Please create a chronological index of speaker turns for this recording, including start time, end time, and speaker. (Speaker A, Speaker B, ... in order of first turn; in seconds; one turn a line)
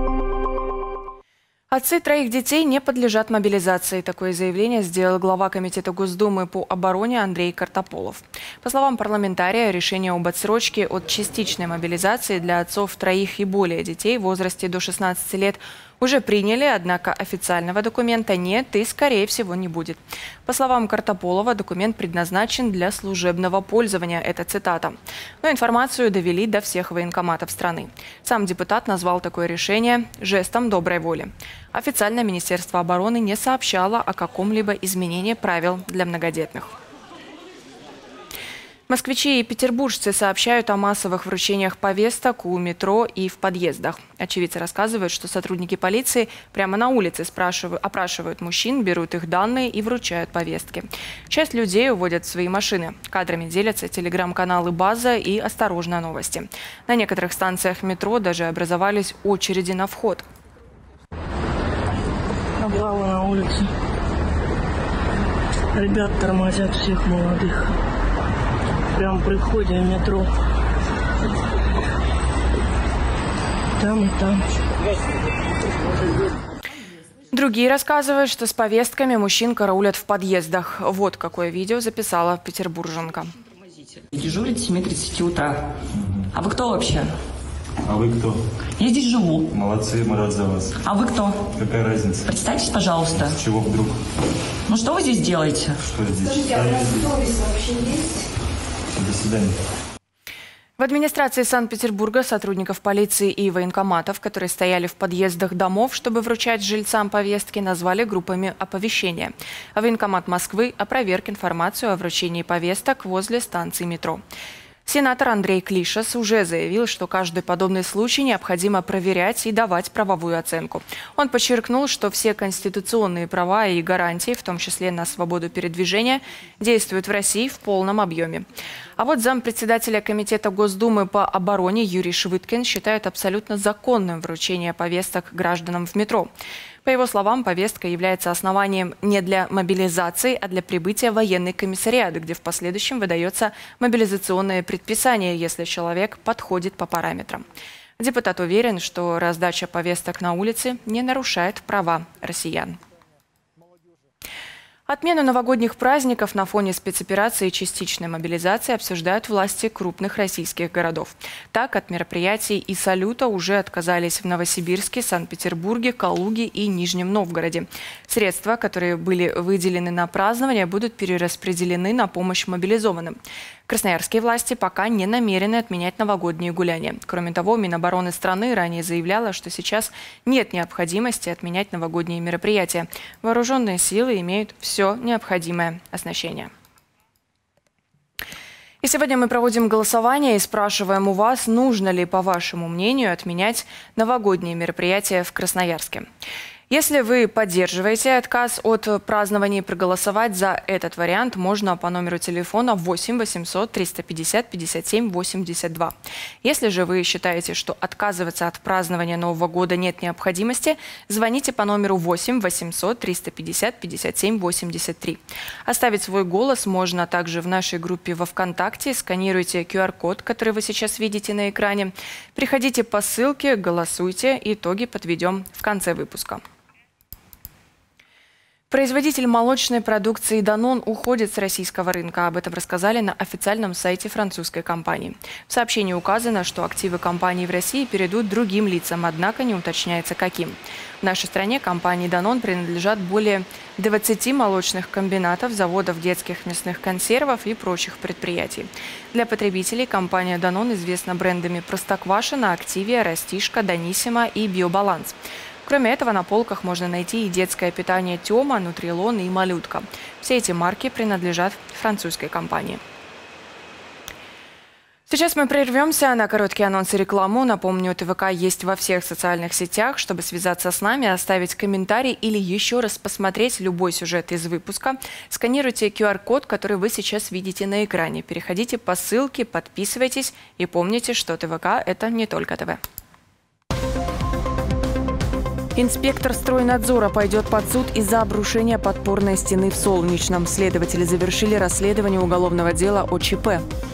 Speaker A: 1.7-36.8
Speaker A: 38.9-60.3
Speaker B: 62.6-63.7
Speaker B: 65.7-67.7
Speaker B: 68.9-70.3
Speaker B: 73.8-74.4
Speaker A: 77.3-83.3
Speaker C: 84.1-85.7
Speaker D: 86.0-86.3
Speaker C: 86.3-87.1
Speaker D: 87.8-88.4
Speaker C: 88.8-89.5
Speaker D: 89.5-90.8
Speaker C: 90.8-91.4
Speaker D: 91.5-92.3
Speaker C: 92.3-93.3
Speaker D: 93.1-94.0
Speaker C: 94.7-95.8
Speaker D: 95.8-97.2
Speaker C: 97.2-98.0
Speaker D: 98.9-99.6
Speaker A: 100.8-114.2
Speaker A: 114.9-136.3
Speaker A: 136.8-147.5
Speaker A: 148.0-152.8
Speaker A: 154.9-186.5
Speaker A: 188.8-196.1
Speaker A: 196.7-226.4
Speaker A: 228.7-262.8
Speaker A: 265.1-282.8
Speaker A: 285.8-293.6